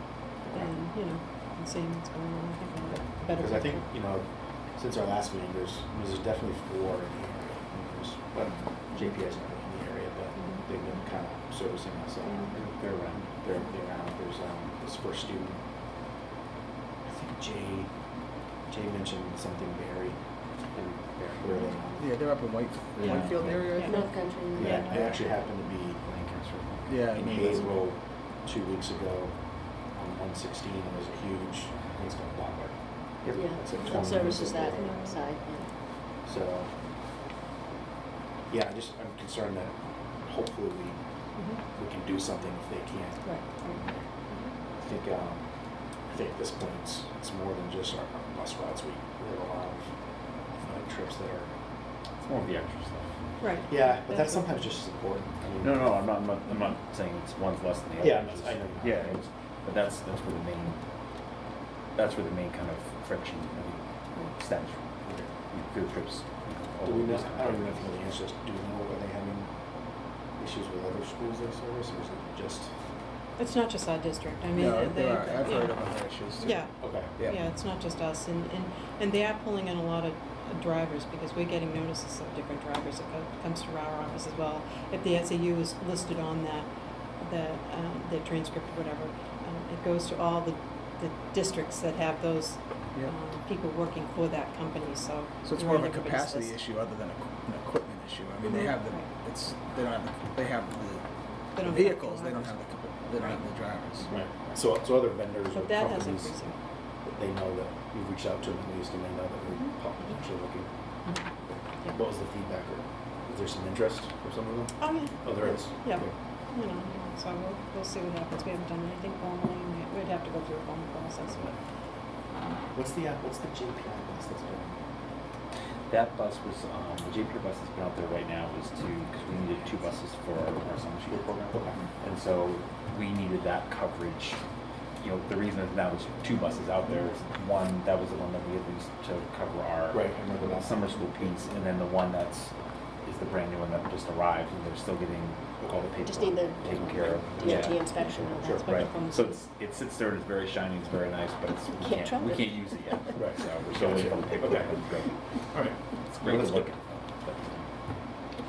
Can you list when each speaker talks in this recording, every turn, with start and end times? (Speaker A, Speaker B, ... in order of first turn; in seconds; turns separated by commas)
Speaker A: 0.4-3.9, Speaker B: 3.2-12.7, Speaker C: 12.6-13.3, Speaker B: 13.2-15.6, Speaker B: 17.0-17.9, Speaker B: 18.7-20.2, Speaker B: 20.7-22.1, Speaker D: 22.0-24.1, Speaker C: 23.0-23.5, Speaker A: 23.0-24.1, Speaker E: 23.8-25.1, Speaker B: 24.5-26.0, Speaker C: 24.5-25.4, Speaker C: 26.0-27.5, Speaker D: 26.9-27.6, Speaker B: 27.1-29.4, Speaker B: 29.9-35.0, Speaker C: 33.2-34.1, Speaker E: 33.3-35.7, Speaker A: 34.6-35.6, Speaker B: 36.2-36.7, Speaker B: 38.5-41.0, Speaker B: 41.6-44.0, Speaker A: 43.2-43.8, Speaker B: 44.8-45.4, Speaker B: 46.1-49.9, Speaker B: 50.5-51.5, Speaker C: 52.2-53.1, Speaker A: 53.4-54.6, Speaker B: 53.7-56.0, Speaker C: 55.6-60.8, Speaker B: 58.0-59.2, Speaker C: 62.0-67.9, Speaker B: 65.0-65.3, Speaker B: 66.8-69.5, Speaker B: 70.4-72.7, Speaker A: 73.4-75.8, Speaker D: 74.5-77.4, Speaker A: 76.4-86.7, Speaker B: 76.8-77.1, Speaker A: 87.2-96.5, Speaker D: 95.4-101.0, Speaker A: 98.4-99.1, Speaker A: 101.5-102.5, Speaker D: 101.5-104.1, Speaker B: 104.1-106.3, Speaker A: 105.5-106.5, Speaker B: 107.0-110.7, Speaker B: 111.9-116.1, Speaker A: 114.8-121.5, Speaker B: 121.3-121.5, Speaker B: 122.7-124.8, Speaker C: 125.9-134.4, Speaker B: 131.5-131.8, Speaker C: 135.0-142.5, Speaker B: 139.9-141.2, Speaker C: 143.0-148.0, Speaker E: 146.0-148.7, Speaker B: 147.3-148.9, Speaker A: 148.5-149.4, Speaker C: 148.6-155.2, Speaker E: 151.8-153.2, Speaker B: 153.1-154.7, Speaker B: 155.5-155.8, Speaker D: 156.1-156.6, Speaker C: 156.2-157.7